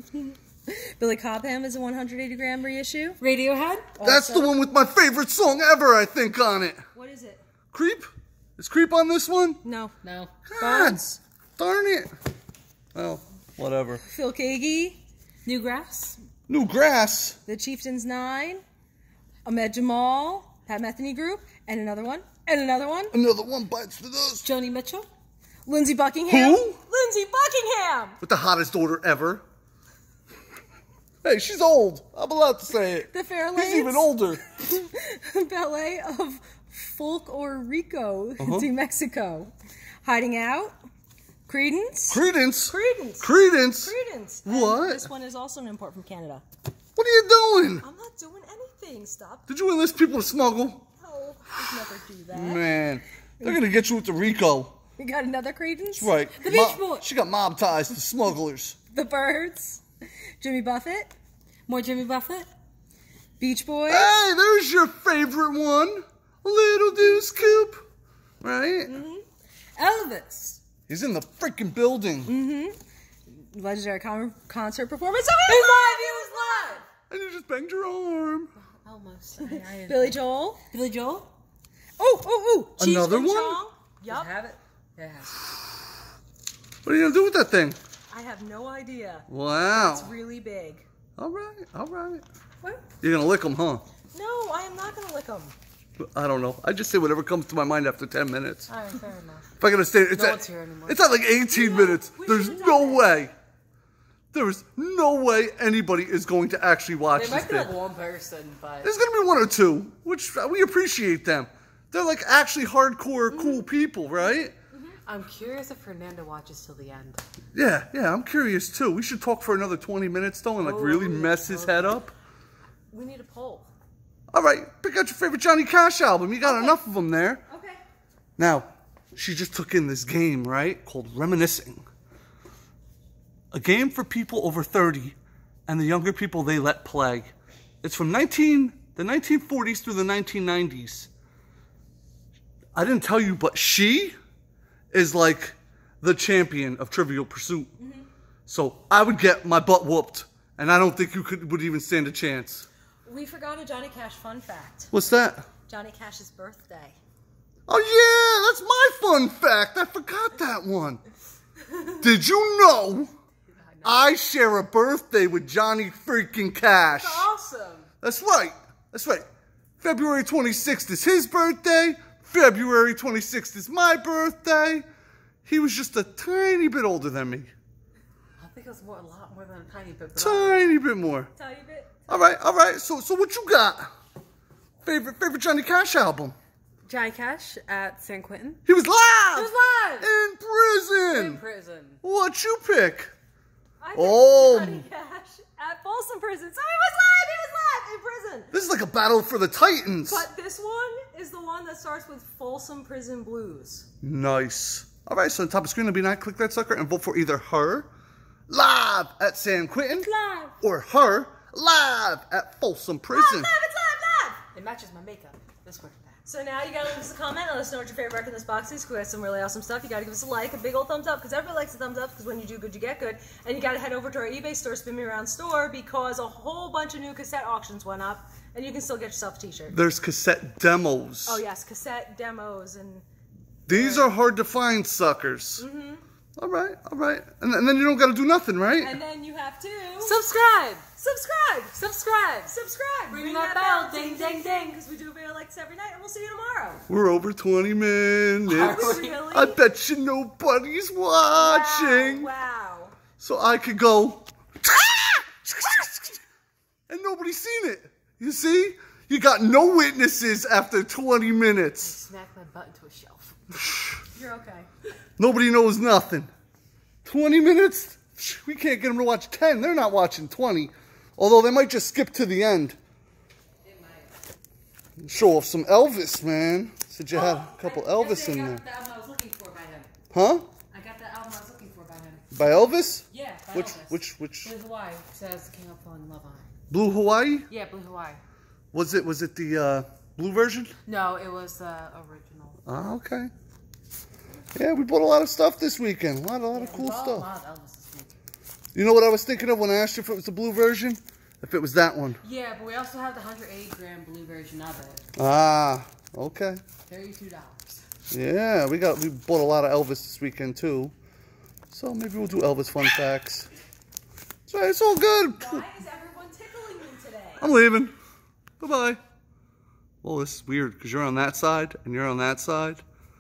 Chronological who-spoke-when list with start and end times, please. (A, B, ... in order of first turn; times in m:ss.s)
0:00.1-0:03.2 A
0:03.2-0:03.9 B
0:04.0-0:04.5 A
0:04.0-0:06.8 C
0:06.9-0:07.4 A
0:07.7-0:09.6 C
0:09.6-0:10.0 A
0:10.0-0:10.3 B
0:10.5-0:11.0 C
0:10.6-0:11.2 A
0:11.6-0:12.1 C
0:13.0-0:14.0 C
0:14.0-0:15.0 A
0:15.4-0:16.2 B
0:16.5-0:17.4 C
0:17.5-0:18.6 A
0:19.4-0:23.2 A
0:23.1-0:24.4 C
0:24.4-0:25.1 B
0:25.7-0:28.2 A
0:26.3-0:26.8 C
0:28.2-0:29.4 C
0:31.2-0:34.4 C
0:33.1-0:39.5 A
0:38.4-0:38.7 C
0:40.0-0:40.8 A
0:41.5-0:43.3 A
0:42.1-0:43.9 C
0:43.8-0:46.4 A
0:44.5-0:45.1 C
0:47.0-0:47.8 C
0:47.8-0:49.5 A
0:49.5-0:50.8 C
0:51.0-0:52.6 A
0:52.3-0:54.8 C
0:55.0-0:56.2 A
0:55.9-0:58.8 C
0:56.4-0:57.1 B
0:58.9-0:59.8 A
1:00.4-1:01.1 A
1:01.7-1:02.5 B
1:03.4-1:04.1 A
1:03.9-1:07.8 C
1:08.4-1:09.0 C
1:08.9-1:09.2 A
1:09.8-1:10.6 B
1:10.9-1:12.3 C
1:12.3-1:16.8 A
1:15.5-1:16.9 B
1:17.1-1:18.5 C
1:18.6-1:21.3 B
1:19.4-1:20.6 A
1:22.0-1:24.3 A
1:22.8-1:23.6 C
1:24.1-1:25.5 B
1:26.8-1:27.8 C
1:28.1-1:30.8 A
1:29.3-1:30.1 C
1:31.2-1:32.2 C
1:33.0-1:33.8 C
1:34.1-1:35.6 A
1:36.0-1:38.7 C
1:38.7-1:39.5 B
1:39.6-1:43.3 C
1:40.1-1:41.0 B
1:41.5-1:43.2 A
1:44.3-1:47.7 C
1:47.1-1:48.9 B
1:48.8-1:54.5 C
1:53.3-1:53.7 A
1:55.1-1:57.2 B
1:57.5-2:02.1 C
2:00.6-2:02.1 B
2:02.9-2:03.7 A
2:04.3-2:07.4 C
2:06.4-2:06.8 A
2:07.5-2:07.8 A
2:08.4-2:11.8 C
2:13.5-2:15.2 C
2:15.7-2:17.3 C
2:17.8-2:21.1 C
2:22.7-2:24.2 C
2:24.9-2:27.7 C
2:27.8-2:28.1 A
2:28.5-2:32.7 C
2:33.0-2:34.9 A
2:34.9-2:35.5 C
2:35.7-2:37.0 A
2:37.7-2:41.0 C
2:42.0-2:43.1 C
2:43.5-2:44.1 B
2:43.8-2:47.3 C
2:46.9-2:47.9 B
2:48.0-2:49.2 C
2:49.8-2:54.8 C
2:55.5-2:57.5 C
2:58.4-3:00.8 B
3:00.2-3:01.3 C
3:01.4-3:02.0 A
3:02.1-3:03.9 C
3:04.8-3:06.4 C
3:06.9-3:08.6 B
3:08.7-3:11.4 C
3:09.3-3:10.1 B
3:11.1-3:12.0 B
3:12.0-3:13.1 C
3:13.8-3:18.5 A
3:14.0-3:14.8 C
3:18.5-3:20.3 C
3:20.1-3:23.9 A
3:24.0-3:27.9 C
3:28.5-3:30.1 C
3:30.0-3:30.5 B
3:30.6-3:33.5 C
3:33.1-3:34.4 A
3:34.5-3:36.2 B
3:36.3-3:49.8 A
3:49.7-3:51.4 C
3:51.3-3:53.0 A
3:53.7-3:55.6 C
3:53.7-3:54.1 A
3:55.6-3:56.0 A
3:56.4-3:59.0 C
3:58.8-4:00.2 A
4:00.0-4:00.8 B
4:01.0-4:01.8 A
4:01.8-4:02.5 B
4:02.5-4:06.8 A
4:03.1-4:04.8 B
4:06.9-4:12.3 C
4:08.5-4:09.2 B
4:08.6-4:09.6 A
4:11.4-4:13.0 A
4:13.2-4:16.2 C
4:16.9-4:22.0 C
4:21.8-4:23.5 B
4:23.6-4:24.0 C
4:24.2-4:24.7 A
4:25.2-4:26.3 C
4:27.0-4:32.8 C
4:33.6-4:34.1 B
4:35.0-4:38.6 C
4:37.1-4:39.9 B
4:40.1-4:40.5 C
4:40.7-4:46.5 B
4:42.3-4:44.5 C
4:46.7-4:47.5 C
4:47.5-4:48.2 B
4:48.7-4:50.7 C
4:50.9-4:52.6 B
4:52.7-4:53.3 C
4:54.6-4:57.3 C
4:56.5-4:58.2 B
4:58.8-5:02.2 C
5:02.2-5:05.1 B
5:05.2-5:06.6 C
5:06.9-5:07.8 B
5:08.1-5:10.9 C
5:11.7-5:13.5 C
5:14.5-5:15.6 C
5:15.4-5:17.5 A
5:17.4-5:17.9 C
5:18.6-5:19.0 C
5:20.0-5:22.8 C